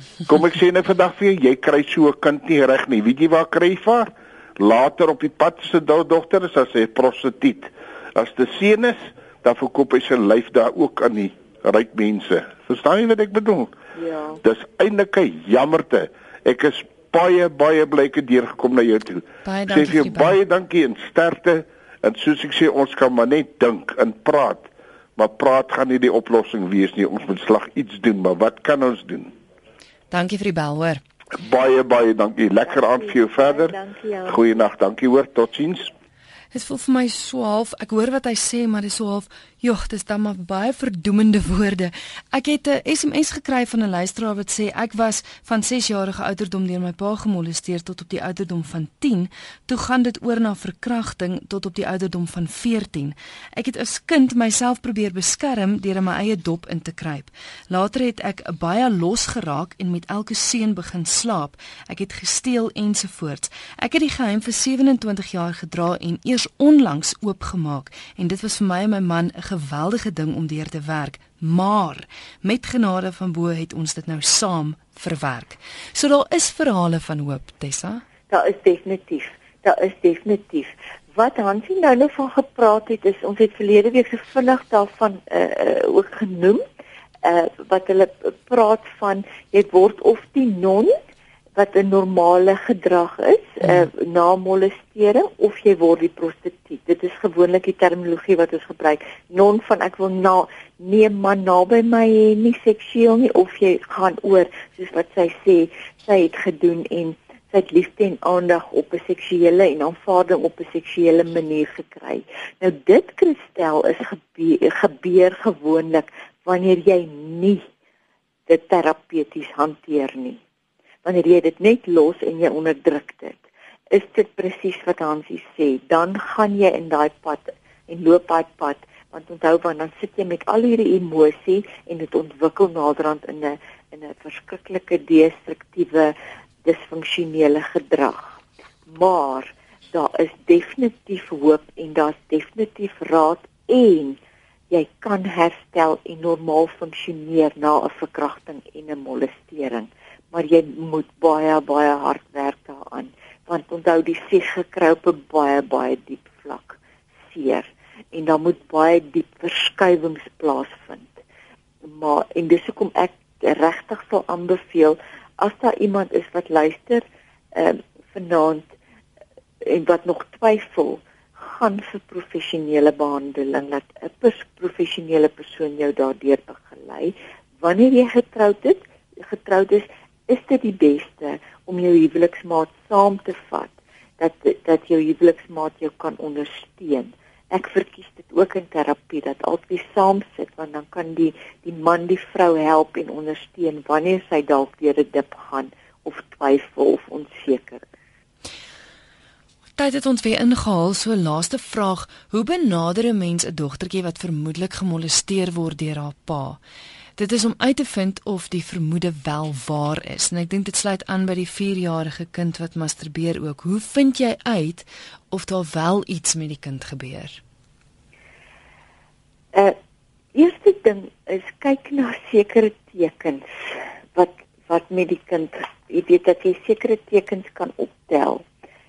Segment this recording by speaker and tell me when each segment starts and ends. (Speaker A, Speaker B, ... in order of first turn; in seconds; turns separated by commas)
Speaker A: 0.3-13.7, Speaker B: 13.9-14.4, Speaker A: 14.4-29.3, Speaker C: 19.4-20.4, Speaker C: 30.1-31.0, Speaker A: 31.3-33.8, Speaker B: 32.6-34.6, Speaker A: 34.3-35.9, Speaker C: 36.5-78.0, Speaker B: 78.3-86.6, Speaker B: 87.2-91.0, Speaker B: 91.5-117.6, Speaker B: 118.5-120.4, Speaker B: 121.0-144.2, Speaker B: 144.7-161.2, Speaker B: 161.8-168.7, Speaker B: 169.6-197.8, Speaker C: 199.8-206.6, Speaker C: 207.2-217.4, Speaker B: 220.3-228.4